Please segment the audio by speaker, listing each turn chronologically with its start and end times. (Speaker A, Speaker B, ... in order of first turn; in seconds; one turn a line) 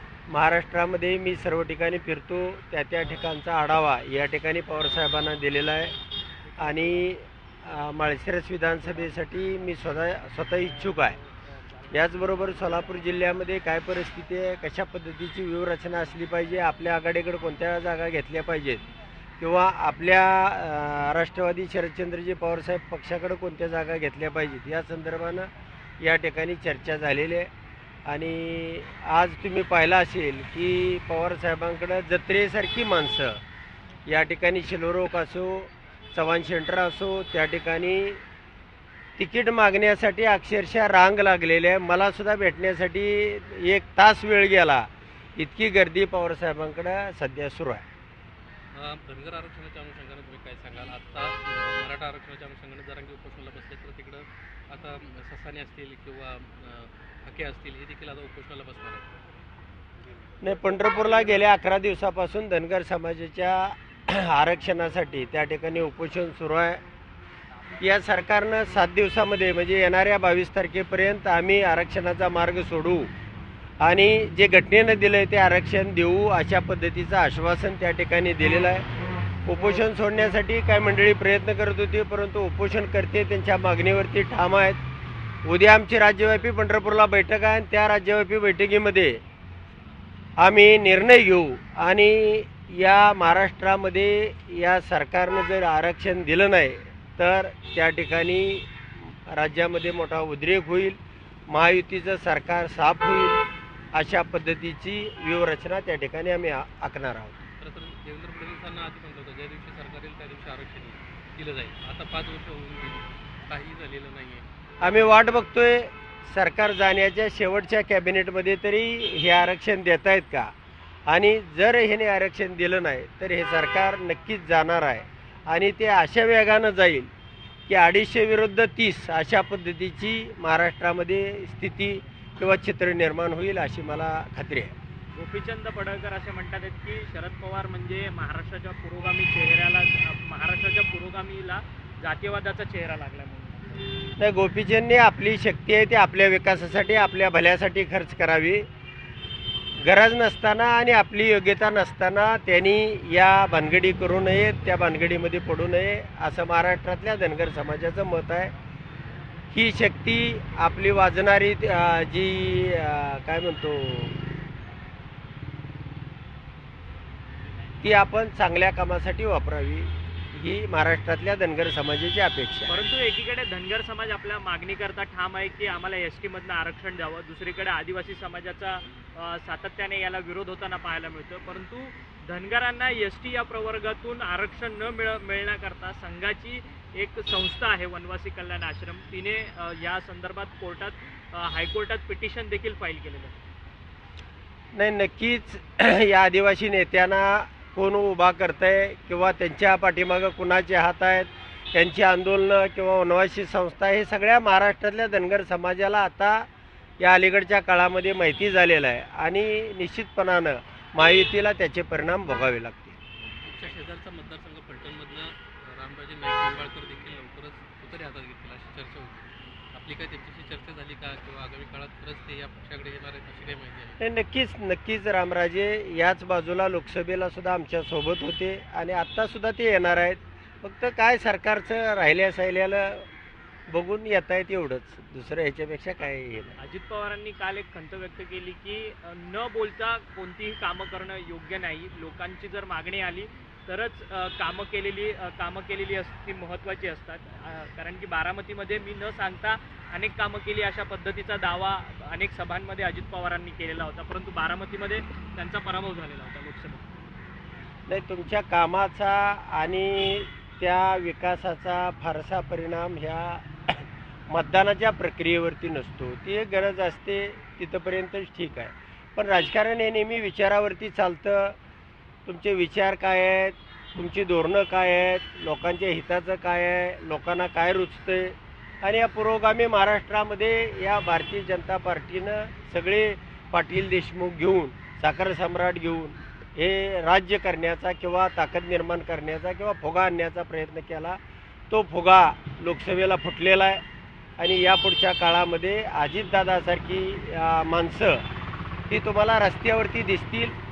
Speaker A: 0.3-5.9
Speaker A: 6.6-11.2
Speaker A: 11.9-18.8
Speaker A: 19.4-27.5
Speaker A: 28.1-33.4
Speaker A: 34.1-38.2
Speaker A: 39.2-47.8
Speaker B: 48.7-59.0
Speaker A: 60.4-66.8
Speaker A: 67.8-73.1
Speaker A: 73.8-78.8
Speaker A: 79.5-84.8
Speaker A: 85.5-89.2
Speaker A: 90.4-107.4
Speaker B: 107.6-114.5
Speaker A: 114.8-120.5
Speaker A: 121.1-127.1
Speaker A: 127.7-134.7
Speaker C: 135.2-143.8
Speaker A: 144.2-148.7
Speaker A: 149.8-158.5
Speaker A: 159.5-164.2
Speaker A: 167.8-172.8
Speaker C: 172.7-193.4
Speaker A: 194.8-206.5
Speaker A: 207.0-213.0
Speaker B: 213.4-224.0
Speaker A: 224.0-233.1
Speaker A: 233.7-236.6
Speaker C: 236.6-256.9
Speaker A: 257.9-271.6
Speaker A: 272.3-291.2
Speaker A: 291.7-293.8
Speaker A: 294.4-298.2
Speaker A: 298.9-300.6